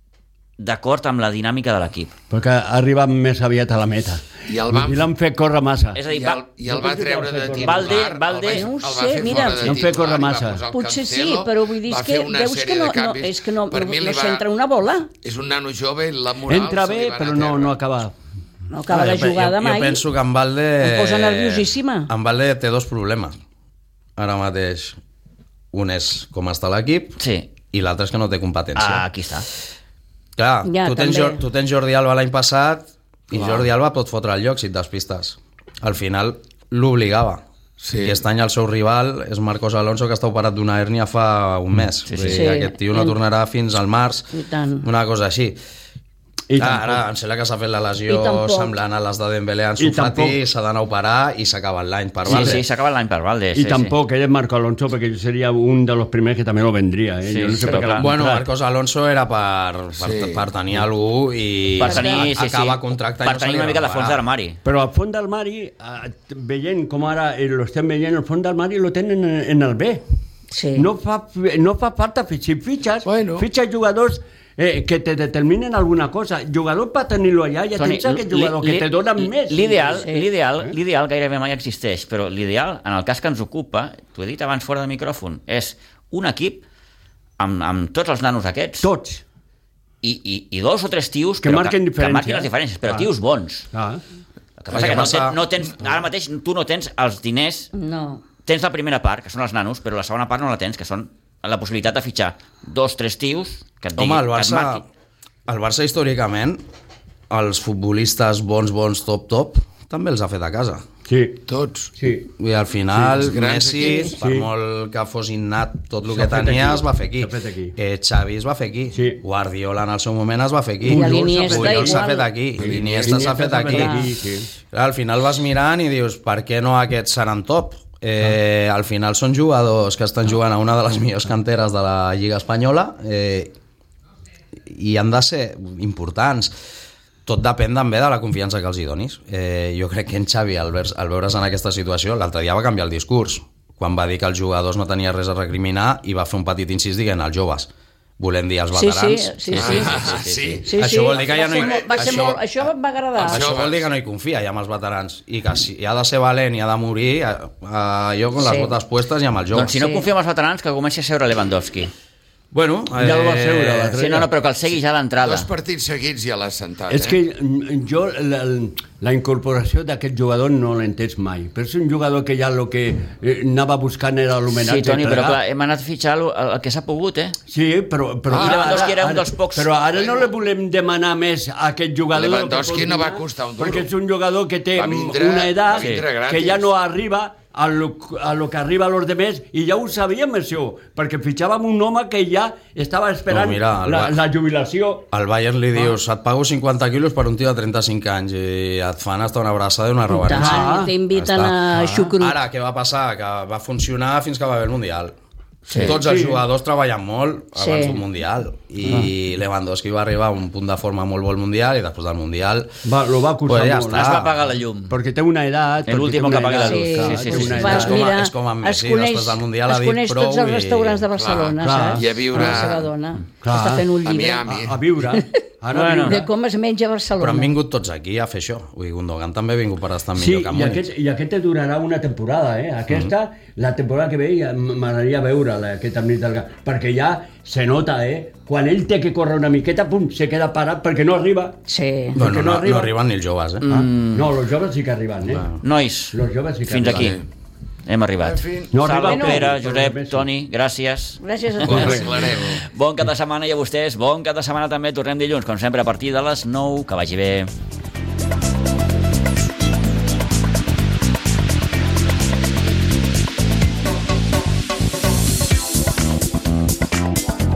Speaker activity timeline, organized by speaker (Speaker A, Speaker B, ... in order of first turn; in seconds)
Speaker A: 0.6-2.1, 6.0-6.4, 7.6-8.7, 27.2-27.5, 28.8-29.5, 42.1-42.5, 52.3-54.0, 57.3-58.1, 61.8-64.6, 77.8-86.6, 87.4-88.9, 90.0-93.7, 94.6-97.7, 98.5-104.8, 149.5-150.6, 159.5-161.9, 164.0-165.5, 174.6-177.4, 178.3-179.7, 185.8-186.0, 213.9-215.0, 215.9-217.9, 225.7-226.2, 243.7-244.3, 245.6-247.2, 247.9-257.5
Speaker B: 2.3-6.0, 6.7-8.1, 9.6-10.6, 16.5-18.1, 46.5-47.0, 49.8-50.4, 52.3-52.6, 53.5-58.4, 64.6-70.0, 70.8-80.1, 88.8-89.2, 91.4-93.1, 93.7-94.0, 111.1-111.4, 112.0-112.3, 114.1-114.5, 116.1-117.8, 118.9-119.2, 120.8-122.1, 122.6-124.5, 163.0-164.3, 166.9-175.4, 177.5-195.1, 200.3-200.9, 201.7-202.1, 205.8-206.4, 208.8-209.1, 212.8-214.2, 214.9-218.0, 221.6-222.7, 223.4-223.9, 224.5-226.3, 230.2-241.6, 242.2-242.9, 243.7-245.6, 246.1-247.1, 248.7-250.3, 251.7-252.1
Speaker C: 4.5-5.1, 6.1-14.4, 15.2-17.8, 33.4-33.6, 37.8-38.2, 60.0-60.4, 73.0-73.5, 111.5-112.0, 113.2-114.1, 122.6-123.2, 149.5-152.3, 153.2-153.9, 165.2-167.2, 178.3-178.9, 179.9-180.3, 182.1-183.9, 184.8-186.7, 221.2-222.9, 224.0-224.8, 246.9-247.2, 248.2-248.7, 251.6-252.6
Speaker D: 8.5-9.8, 10.7-15.1, 18.7-20.0, 20.8-22.1, 30.6-31.4, 42.3-43.2, 44.3-44.9, 48.1-48.7, 61.8-62.3, 70.5-70.9, 79.9-80.3, 97.7-98.2, 113.8-114.1, 120.8-122.3, 123.5-124.1, 148.7-150.0, 150.6-153.5, 158.4-158.7, 159.8-160.1, 200.1-202.4, 207.6-208.0, 216.6-224.5, 225.1-227.5, 241.7-242.2, 249.0-249.5, 251.2-252.1
Speaker E: 18.9-23.4, 24.2-25.0, 25.7-27.2, 27.7-29.1, 30.4-37.4, 38.0-44.3, 44.8-45.6, 46.6-52.6, 58.0-64.2, 94.7-95.4, 104.0-104.8, 105.5-106.6, 107.3-110.9, 112.4-124.1, 124.7-133.5, 134.6-136.5, 137.3-149.3, 150.8-152.7, 153.3-159.8, 162.5-164.0, 193.3-194.2, 195.1-205.1, 205.8-212.8, 213.5-214.3, 217.7-221.1, 227.2-230.9, 242.2-243.6